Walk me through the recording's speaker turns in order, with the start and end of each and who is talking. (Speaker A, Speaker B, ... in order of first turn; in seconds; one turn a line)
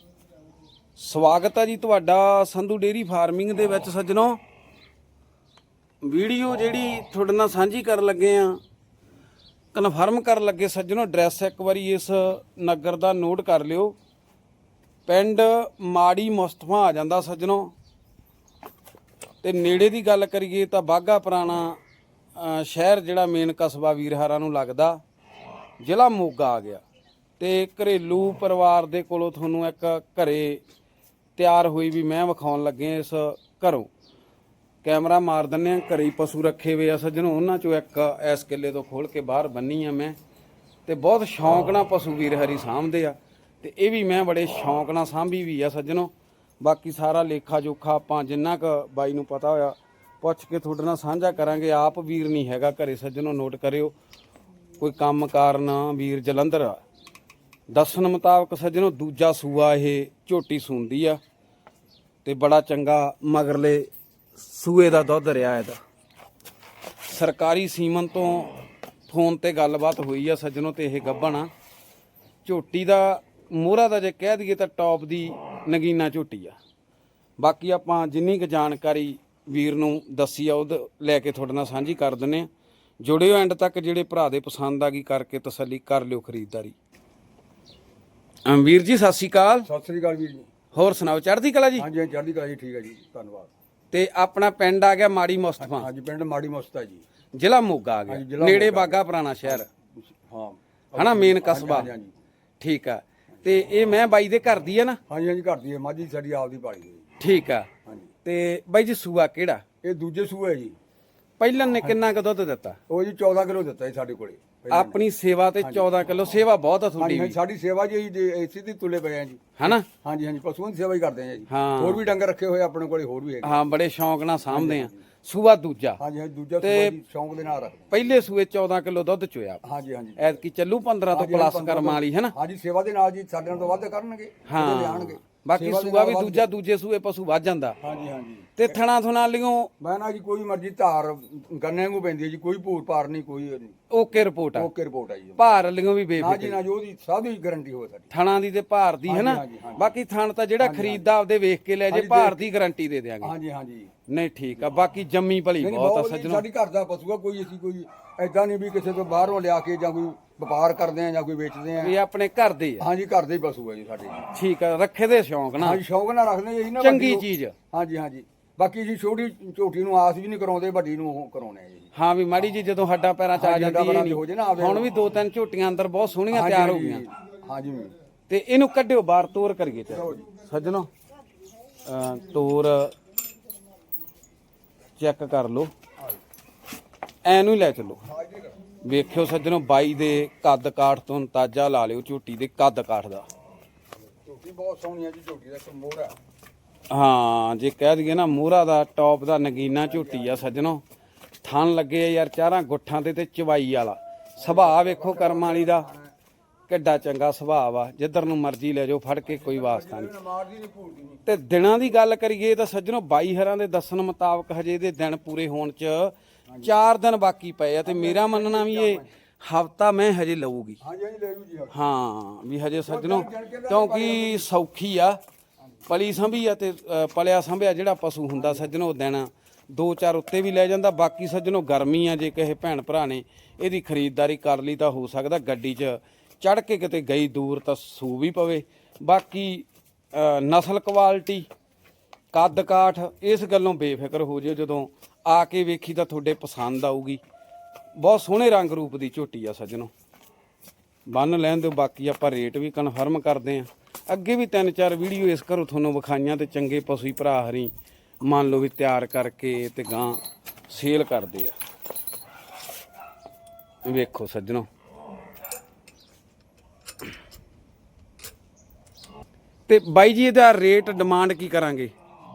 Speaker A: 1.0-4.4
Speaker A: 6.0-8.6
Speaker A: 9.7-13.9
Speaker A: 15.1-17.7
Speaker A: 19.4-21.8
Speaker A: 22.4-25.0
Speaker A: 25.8-26.8
Speaker A: 27.4-30.6
Speaker A: 31.4-33.9
Speaker A: 34.8-40.2
Speaker A: 40.9-53.9
Speaker A: 54.8-56.8
Speaker A: 57.7-61.2
Speaker A: 62.2-65.8
Speaker A: 67.1-71.5
Speaker A: 72.4-76.5
Speaker A: 77.4-82.5
Speaker A: 83.0-86.7
Speaker A: 88.4-89.7
Speaker B: 89.6-90.6
Speaker A: 90.7-91.9
Speaker B: 91.8-93.5
Speaker A: 93.9-95.9
Speaker B: 95.6-97.0
Speaker A: 97.3-99.7
Speaker B: 98.1-102.1
Speaker A: 101.0-101.9
Speaker A: 102.6-105.0
Speaker B: 105.1-107.0
Speaker A: 107.2-107.7
Speaker A: 108.2-109.6
Speaker B: 109.8-110.8
Speaker A: 111.4-112.8
Speaker B: 112.9-115.0
Speaker A: 114.7-117.4
Speaker B: 115.6-115.9
Speaker B: 117.0-123.6
Speaker A: 119.6-119.8
Speaker A: 121.5-122.0
Speaker A: 123.4-126.0
Speaker B: 124.5-125.0
Speaker B: 126.0-127.9
Speaker A: 126.6-127.0
Speaker A: 127.9-129.6
Speaker B: 129.6-130.2
Speaker A: 130.2-132.3
Speaker B: 131.1-136.5
Speaker A: 134.5-137.8
Speaker B: 137.8-138.8
Speaker A: 138.6-139.7
Speaker B: 139.8-143.7
Speaker A: 143.9-144.7
Speaker B: 144.5-145.5
Speaker A: 145.4-146.6
Speaker B: 146.2-148.1
Speaker A: 148.1-153.3
Speaker B: 149.1-149.9
Speaker B: 150.6-151.1
Speaker B: 151.9-152.4
Speaker B: 153.2-153.9
Speaker A: 154.1-156.4
Speaker B: 155.6-161.9
Speaker A: 161.8-162.8
Speaker B: 162.8-164.3
Speaker A: 164.3-165.8
Speaker B: 165.6-171.9
Speaker A: 166.8-167.5
Speaker A: 171.9-177.1
Speaker B: 173.3-174.9
Speaker B: 176.3-177.9
Speaker A: 178.3-180.9
Speaker B: 179.9-180.3
Speaker A: 181.8-182.9
Speaker A: 185.0-185.7
Speaker A: 187.2-188.0
Speaker B: 188.0-188.6
Speaker A: 188.8-193.3
Speaker B: 194.2-196.1
Speaker A: 196.9-200.8
Speaker B: 199.8-200.5
Speaker A: 201.4-205.9
Speaker B: 204.4-206.1
Speaker A: 206.7-210.1
Speaker B: 209.3-211.2
Speaker A: 211.2-220.8
Speaker B: 217.8-219.1
Speaker B: 220.8-221.8
Speaker A: 221.7-225.2
Speaker B: 222.8-224.5
Speaker A: 225.9-241.5
Speaker A: 242.3-247.2
Speaker A: 247.9-249.9
Speaker A: 251.1-261.5
Speaker A: 263.8-264.7
Speaker A: 269.7-271.9